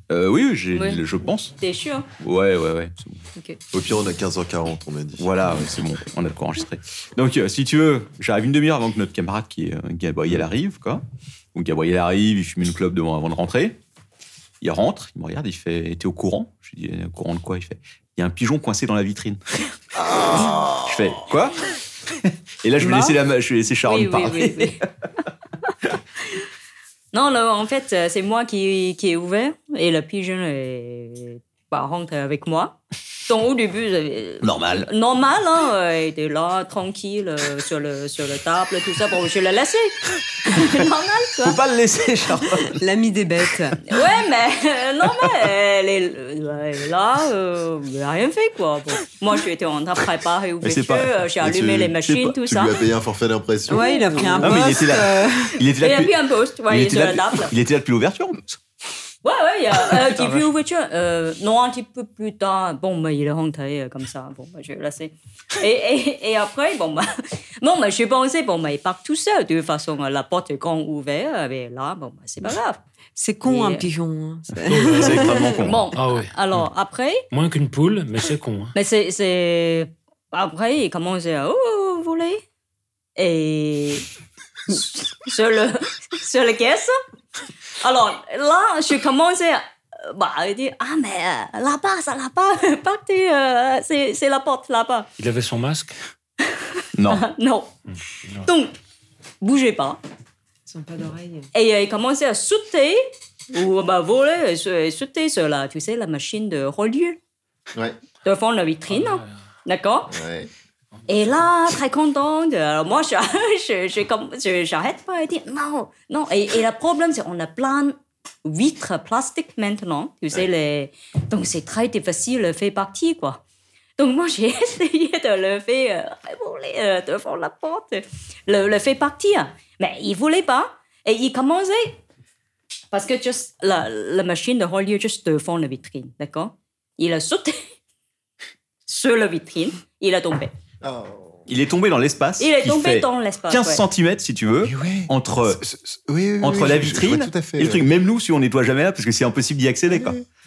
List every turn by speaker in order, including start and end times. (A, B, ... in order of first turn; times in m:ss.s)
0:00.1-0:01.6 A
0:00.7-0:01.0 B
0:01.6-0:02.1 B
0:02.2-0:03.2 A
0:03.7-0:05.4 C
0:05.2-0:11.0 A
0:11.5-0:13.8 A
0:14.6-0:19.7 A
0:20.0-0:20.9 C
0:20.4-0:24.8 A
0:22.8-0:23.2 D
0:23.8-0:24.8 B
0:27.1-0:41.6 B
0:34.4-0:34.9 A
0:41.4-0:42.8 A
0:42.7-0:43.8 D
0:43.9-0:52.8 B
0:45.2-0:45.5 A
0:50.6-0:51.1 A
0:51.4-0:54.5 C
0:53.7-0:55.6 D
0:53.7-0:54.5 B
0:54.4-0:56.1 A
0:55.7-0:57.5 B
0:56.7-0:58.6 A
0:59.2-1:12.8 B
0:59.9-1:00.5 A
1:13.2-1:15.6 D
1:13.4-1:13.9 B
1:14.7-1:15.4 E
1:14.7-1:15.8 A
1:15.5-1:17.2 B
1:15.9-1:16.3 E
1:17.3-1:18.7 E
1:18.8-1:22.4 B
1:23.2-1:24.1 B
1:24.7-1:27.0 B
1:27.8-1:35.1 B
1:35.2-1:36.0 E
1:36.4-1:37.7 B
1:37.0-1:37.2 A
1:37.9-1:38.5 E
1:38.4-1:38.7 B
1:39.4-1:40.0 B
1:40.7-1:41.5 D
1:41.5-1:47.2 B
1:48.2-1:50.2 B
1:48.9-1:49.3 E
1:50.1-1:50.5 C
1:51.1-2:03.4 B
2:04.0-2:12.0 B
2:12.9-2:17.7 B
2:18.9-2:20.5 B
2:20.8-2:21.4 C
2:21.5-2:25.6 A
2:22.4-2:23.8 B
2:24.6-2:27.9 C
2:26.4-2:30.2 A